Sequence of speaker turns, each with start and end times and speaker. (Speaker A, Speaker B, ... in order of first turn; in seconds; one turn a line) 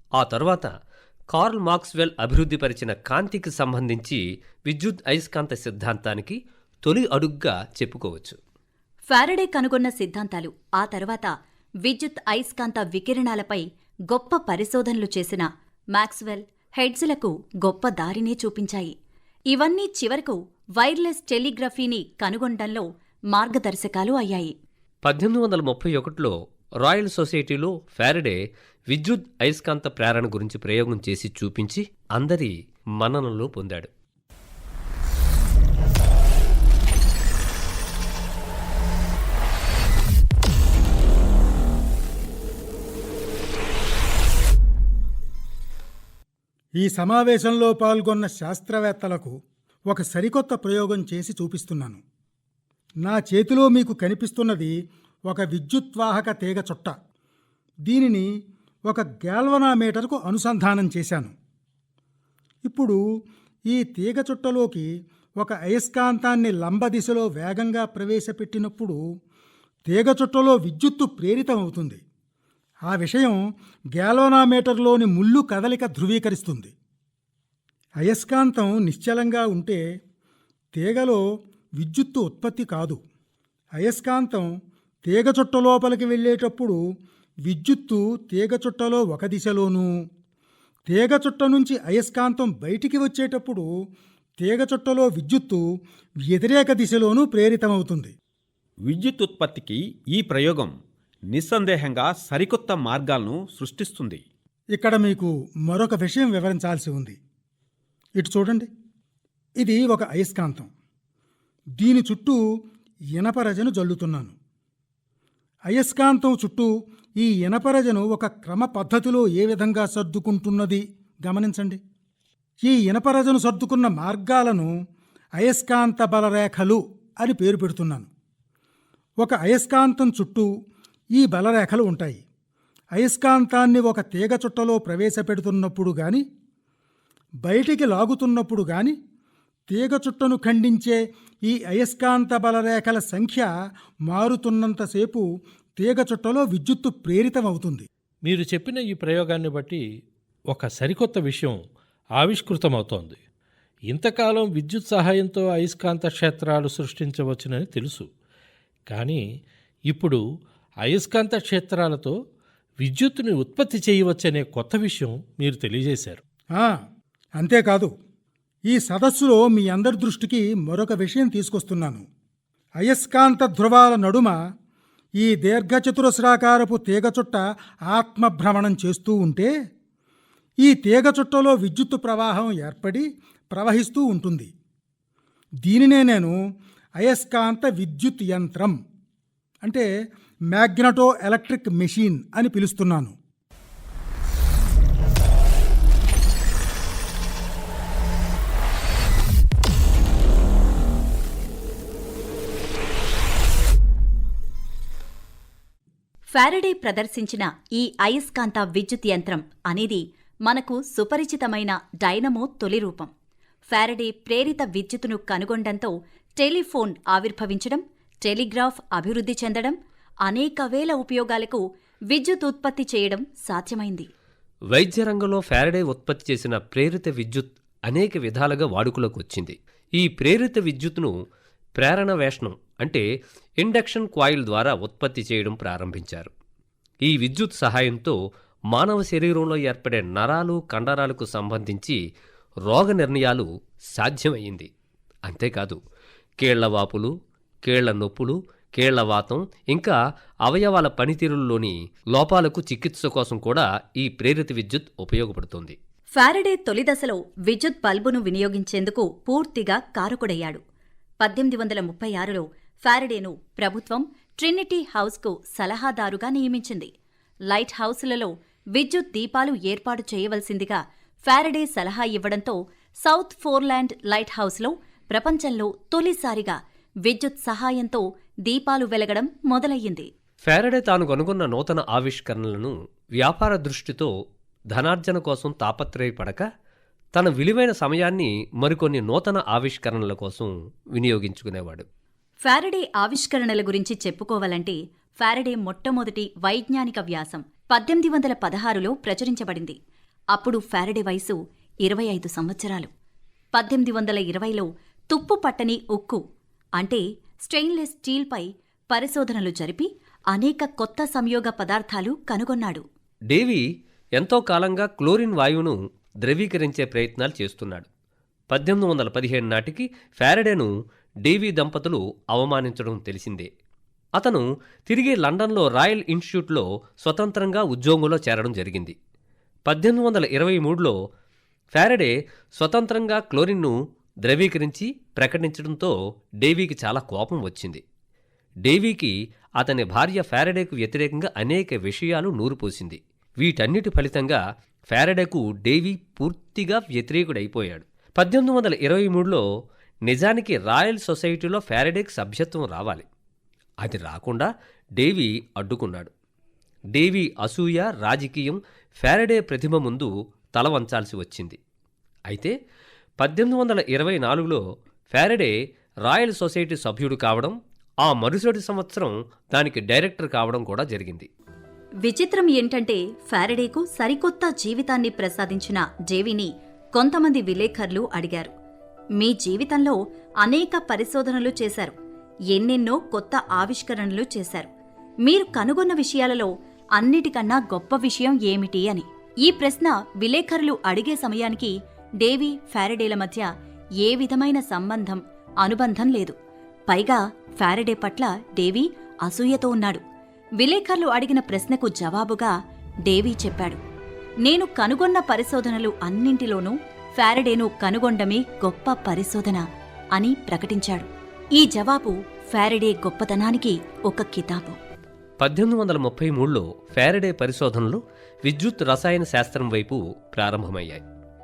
Speaker A: 0.2-0.7
Speaker A: 1.3-8.4
Speaker B: 9.1-11.3
Speaker B: 11.8-18.9
Speaker B: 19.5-24.5
Speaker A: 25.0-28.4
Speaker A: 28.9-33.9
Speaker C: 46.8-49.3
Speaker C: 49.9-52.0
Speaker C: 53.0-54.7
Speaker C: 55.3-56.9
Speaker C: 57.9-58.3
Speaker C: 58.9-61.3
Speaker C: 62.6-63.0
Speaker C: 63.7-69.0
Speaker C: 69.9-72.0
Speaker C: 72.9-73.4
Speaker C: 73.9-76.7
Speaker C: 78.0-79.8
Speaker C: 80.8-81.2
Speaker C: 81.8-83.0
Speaker C: 83.8-84.5
Speaker C: 85.0-86.8
Speaker C: 87.5-89.9
Speaker C: 90.9-93.7
Speaker C: 94.4-95.6
Speaker C: 96.3-98.1
Speaker D: 98.8-100.7
Speaker D: 101.3-104.2
Speaker C: 104.7-107.2
Speaker C: 108.2-108.7
Speaker C: 109.6-110.7
Speaker C: 111.8-112.4
Speaker C: 113.1-114.3
Speaker C: 115.7-121.8
Speaker C: 122.6-124.7
Speaker C: 125.4-128.1
Speaker C: 129.2-130.5
Speaker C: 131.1-132.2
Speaker C: 132.9-136.2
Speaker C: 137.4-138.9
Speaker C: 139.7-143.5
Speaker C: 144.1-145.2
Speaker C: 145.8-147.9
Speaker E: 148.2-149.8
Speaker E: 150.5-151.6
Speaker E: 152.2-153.2
Speaker E: 153.9-158.1
Speaker E: 158.9-159.2
Speaker E: 159.9-160.2
Speaker E: 160.8-162.1
Speaker E: 162.8-166.2
Speaker C: 167.4-167.9
Speaker C: 168.7-172.0
Speaker C: 172.8-174.3
Speaker C: 175.2-179.5
Speaker C: 180.6-184.5
Speaker C: 185.6-186.3
Speaker C: 187.0-188.8
Speaker C: 190.5-193.1
Speaker B: 206.3-213.1
Speaker B: 213.7-224.1
Speaker A: 224.7-231.1
Speaker A: 231.8-233.0
Speaker A: 233.6-236.3
Speaker A: 237.0-238.1
Speaker A: 238.7-242.0
Speaker A: 242.7-244.7
Speaker A: 245.2-245.8
Speaker A: 246.4-247.1
Speaker A: 247.6-255.8
Speaker B: 256.1-260.6
Speaker B: 261.2-266.9
Speaker B: 267.5-280.1
Speaker A: 280.5-284.1
Speaker A: 284.7-286.4
Speaker A: 287.1-291.9
Speaker B: 292.4-299.8
Speaker B: 300.3-302.9
Speaker B: 303.5-306.2
Speaker B: 306.8-312.8
Speaker A: 313.3-313.6
Speaker A: 314.2-317.9
Speaker A: 318.5-320.7
Speaker A: 321.2-323.5
Speaker A: 324.2-328.9
Speaker A: 329.7-330.9
Speaker A: 331.7-333.7
Speaker A: 334.2-337.8
Speaker A: 338.6-349.4
Speaker A: 350.1-353.1
Speaker A: 353.8-356.1
Speaker A: 356.9-361.6
Speaker A: 363.2-364.6
Speaker A: 365.1-365.5
Speaker A: 366.0-371.3
Speaker B: 372.0-378.5
Speaker B: 379.2-381.9
Speaker B: 382.5-384.7
Speaker B: 385.2-393.5
Speaker B: 394.0-396.4
Speaker B: 396.9-400.0
Speaker B: 400.6-402.5
Speaker B: 403.1-403.8
Speaker B: 404.4-409.6
Speaker B: 410.1-414.8
Speaker A: 415.4-421.0